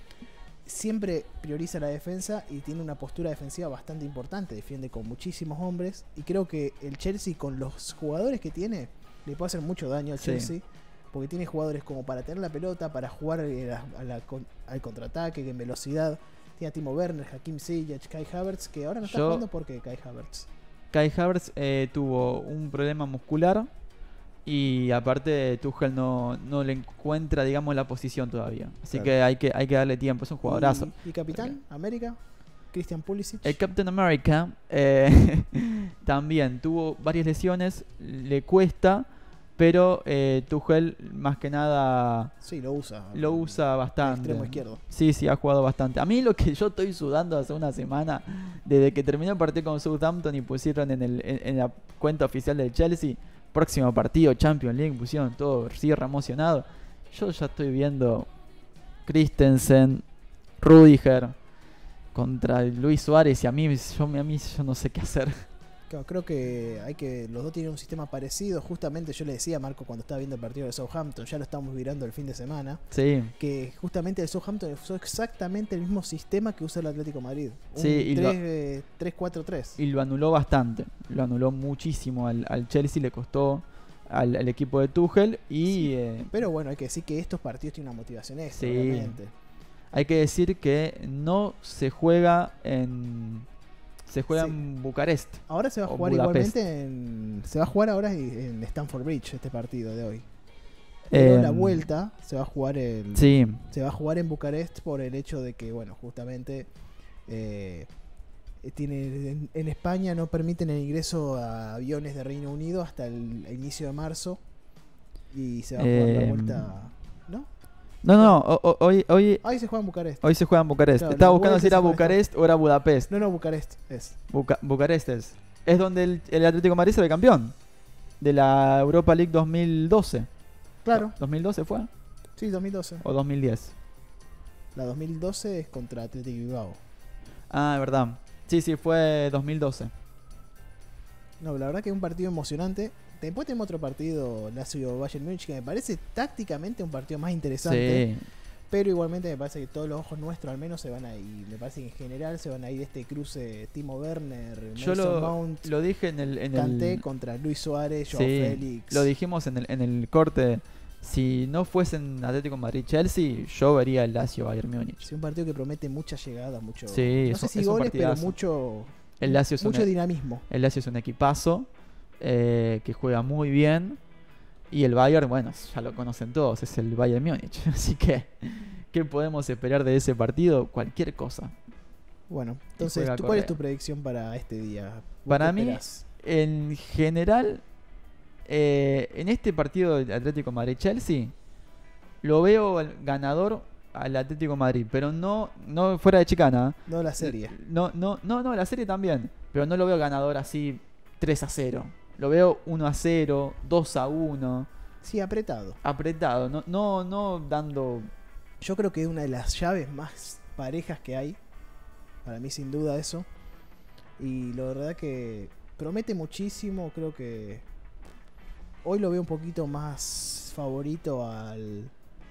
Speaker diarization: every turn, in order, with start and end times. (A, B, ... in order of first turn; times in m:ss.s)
0:00.6-0:20.5 A
0:10.2-0:10.5 B
0:19.0-0:19.4 B
0:20.9-0:23.7 B
0:24.5-0:31.6 B
0:30.4-0:32.2 A
0:32.7-0:33.6 A
0:33.4-0:42.3 B
0:42.4-0:44.8 A
0:43.1-0:58.3 B
0:59.0-1:00.0 B
1:00.6-1:01.3 B
1:02.1-1:05.4 B
1:05.9-1:12.8 A
1:12.9-1:13.3 B
1:13.4-1:19.8 A
1:17.8-1:18.4 B
1:19.8-1:26.3 B
1:25.7-1:29.3 A
1:28.5-1:29.2 B
1:29.9-1:33.5 B
1:34.1-1:36.5 B
1:34.3-1:34.6 A
1:35.5-1:40.3 A
1:41.1-1:41.8 B
1:41.1-1:46.7 A
1:43.2-1:43.6 B
1:47.3-1:47.9 A
1:48.6-1:54.4 A
1:55.3-1:57.5 A
1:55.8-1:56.7 B
1:58.0-1:59.4 B
1:59.4-2:00.2 A
2:00.2-2:03.1 B
2:01.0-2:02.2 A
2:03.1-2:04.2 A
2:04.3-2:07.5 B
2:08.2-2:10.3 B
2:10.8-2:11.2 A
2:10.9-2:11.9 B
2:12.4-2:13.0 A
2:13.0-2:13.8 B
2:14.8-2:16.8 A
2:17.5-2:19.9 B
2:21.4-2:28.1 A
2:27.6-2:28.2 B
2:28.7-2:35.7 A
2:34.8-2:37.0 B
2:36.5-2:39.1 A
2:38.1-2:45.1 B
2:45.0-2:50.4 A
2:46.9-2:48.4 B
2:49.2-2:49.9 B
2:50.5-2:51.7 B
2:52.2-2:54.0 B
2:54.7-3:01.5 B
3:02.3-3:06.0 A
3:02.8-3:03.5 B
3:05.3-3:07.6 B
3:08.5-3:11.3 B
3:12.2-3:24.7 B
3:16.9-3:17.5 A
3:25.0-3:25.8 A
3:25.8-3:28.1 B
3:28.6-3:31.4 A
3:32.2-3:33.3 A
3:34.2-3:37.6 A
3:38.8-3:41.9 A